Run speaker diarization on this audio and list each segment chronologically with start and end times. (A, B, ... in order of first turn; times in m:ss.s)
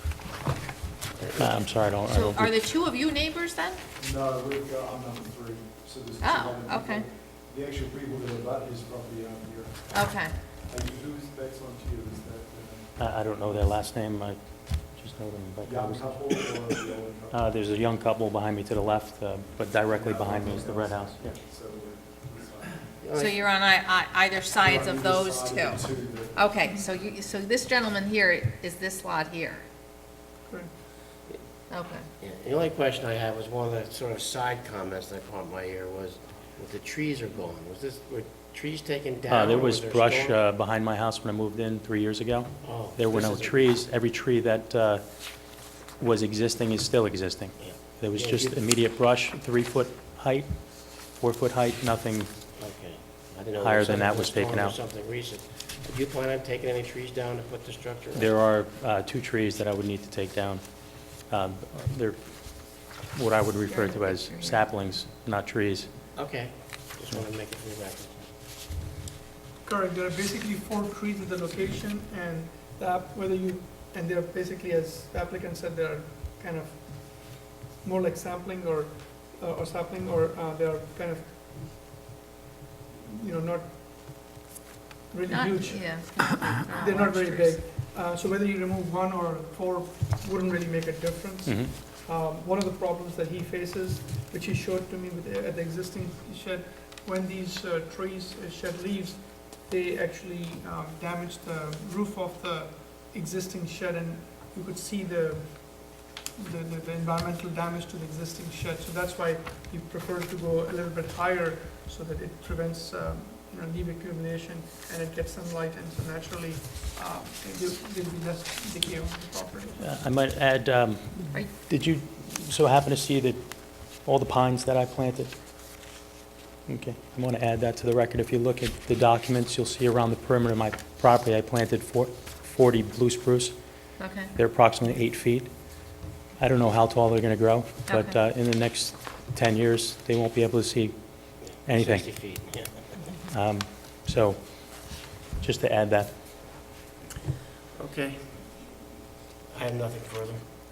0:01.3-0:02.6 A
0:02.0-0:03.8 B
0:04.0-0:13.6 C
0:06.2-0:07.0 B
0:09.9-0:10.3 B
0:13.0-0:16.3 A
0:15.6-0:17.6 C
0:17.3-0:21.4 A
0:19.8-0:22.9 C
0:23.0-0:23.4 D
0:23.1-0:29.6 B
0:24.6-0:26.5 C
0:30.4-0:30.7 E
0:31.7-0:32.1 B
0:32.2-0:40.4 D
0:39.3-0:52.3 A
0:42.6-0:43.7 D
0:47.6-0:48.6 D
0:52.5-0:58.3 D
0:53.6-0:54.8 A
0:58.1-1:05.9 A
1:03.7-1:04.6 B
1:06.1-1:08.3 D
1:09.6-1:21.7 E
1:22.9-1:24.2 E
1:25.1-1:59.8 E
1:25.3-1:27.6 B
1:31.4-1:31.7 A
1:59.8-2:05.3 A
2:06.6-2:26.1 A
2:14.0-2:14.3 B
2:17.9-2:18.2 B
2:21.4-2:23.1 D
2:27.8-2:28.5 D
2:29.5-2:30.4 D